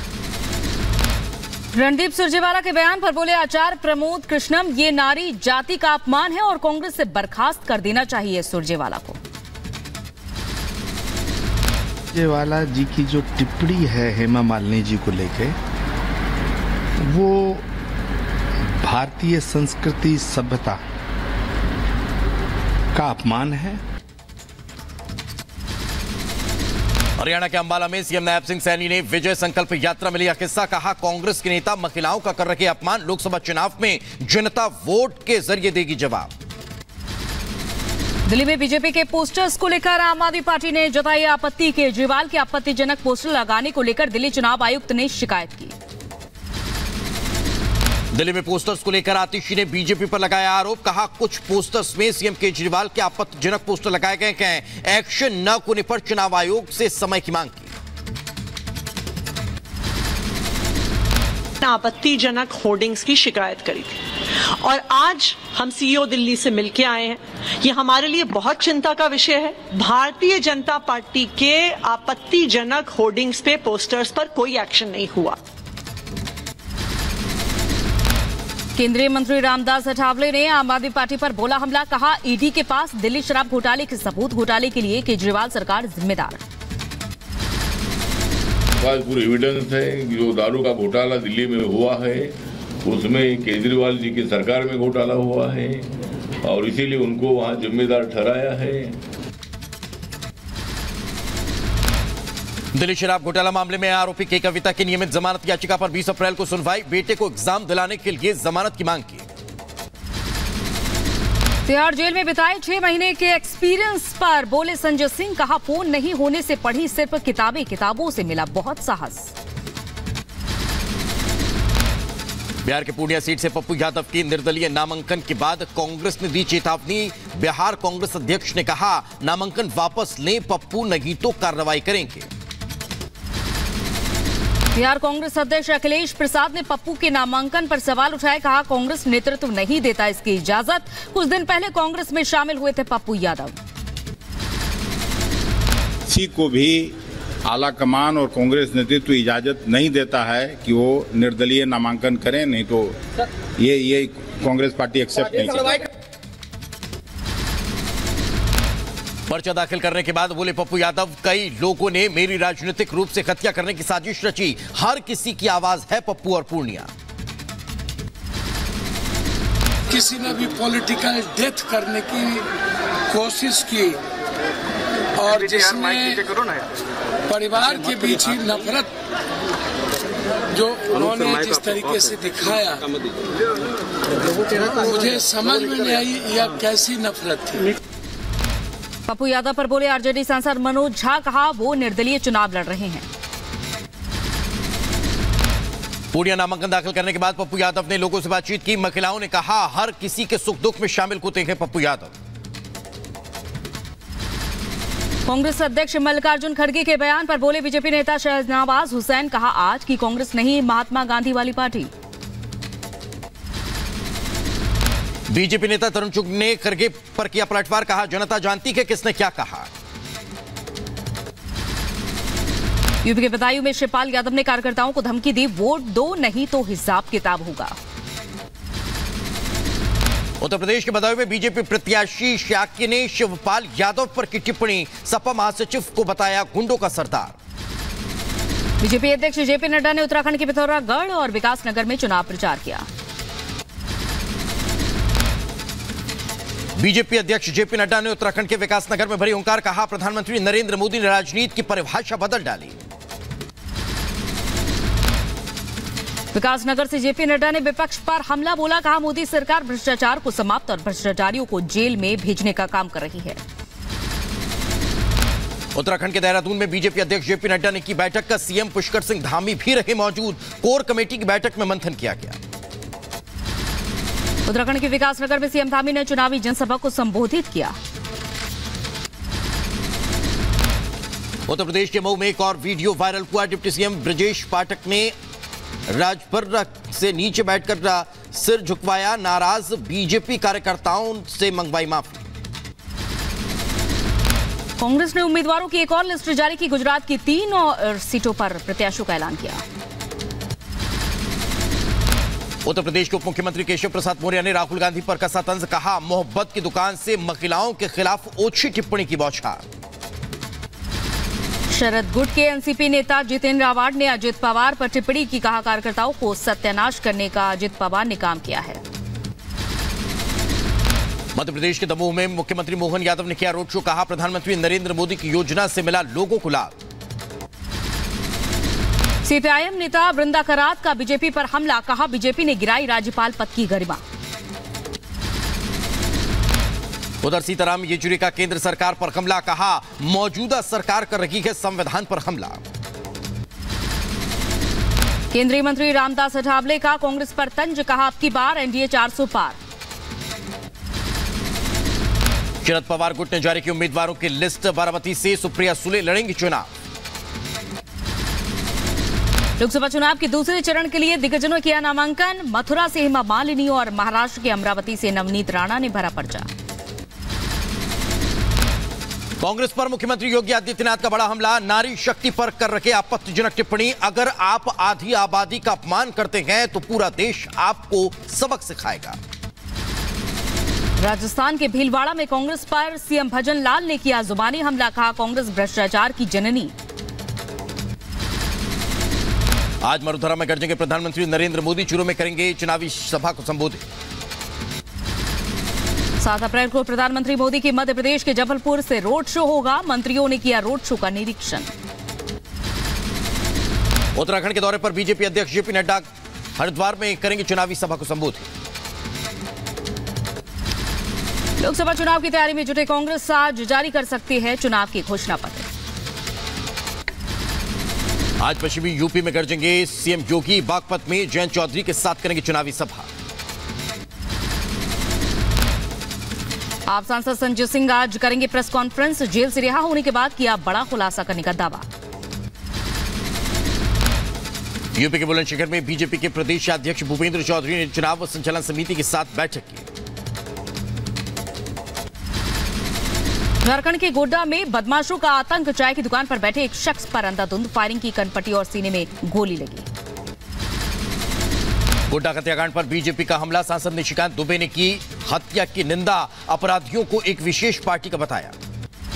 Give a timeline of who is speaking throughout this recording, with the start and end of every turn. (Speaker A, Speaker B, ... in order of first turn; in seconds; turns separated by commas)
Speaker A: 1.7-9.2, Speaker B: 12.1-15.5, Speaker B: 17.1-17.6, Speaker B: 18.8-20.8, Speaker B: 22.9-23.8, Speaker C: 27.2-36.3, Speaker A: 38.3-45.7, Speaker C: 48.1-57.7, Speaker D: 61.6-64.0, Speaker D: 64.6-75.4, Speaker A: 78.8-86.4, Speaker E: 88.8-92.3, Speaker E: 92.8-95.9, Speaker E: 96.4-98.9, Speaker C: 102.8-109.2, Speaker A: 111.7-119.3, Speaker C: 122.6-132.3, Speaker A: 134.7-143.6, Speaker F: 146.1-146.9, Speaker F: 147.5-152.9, Speaker F: 153.6-155.8, Speaker C: 159.3-166.9, Speaker G: 169.9-172.4, Speaker G: 173.1-174.0, Speaker G: 175.2-176.3, Speaker G: 177.3-178.9, Speaker G: 180.5-182.8, Speaker G: 184.5-187.7, Speaker A: 189.1-193.1, Speaker C: 196.1-202.1, Speaker A: 205.2-211.9, Speaker C: 215.3-219.7, Speaker A: 223.0-227.7, Speaker C: 230.4-237.3, Speaker A: 238.8-242.8, Speaker C: 246.8-252.8, Speaker A: 256.3-263.4, Speaker C: 265.7-272.4, Speaker A: 274.4-277.7, Speaker C: 281.5-285.1, Speaker C: 285.9-292.2, Speaker A: 294.8-299.6, Speaker C: 302.6-309.6, Speaker A: 311.7-318.8, Speaker C: 321.4-326.7, Speaker A: 329.2-334.0, Speaker C: 337.2-342.6, Speaker A: 345.3-349.6, Speaker C: 352.6-356.7, Speaker A: 359.6-366.5, Speaker C: 369.4-379.2, Speaker A: 381.0-386.7, Speaker C: 389.8-393.8, Speaker A: 396.2-401.7, Speaker C: 404.1-406.0, Speaker C: 406.6-408.5, Speaker A: 411.6-415.6, Speaker C: 418.4-423.1, Speaker A: 426.9-431.9, Speaker C: 434.9-439.8, Speaker A: 443.6-449.9, Speaker C: 452.1-458.5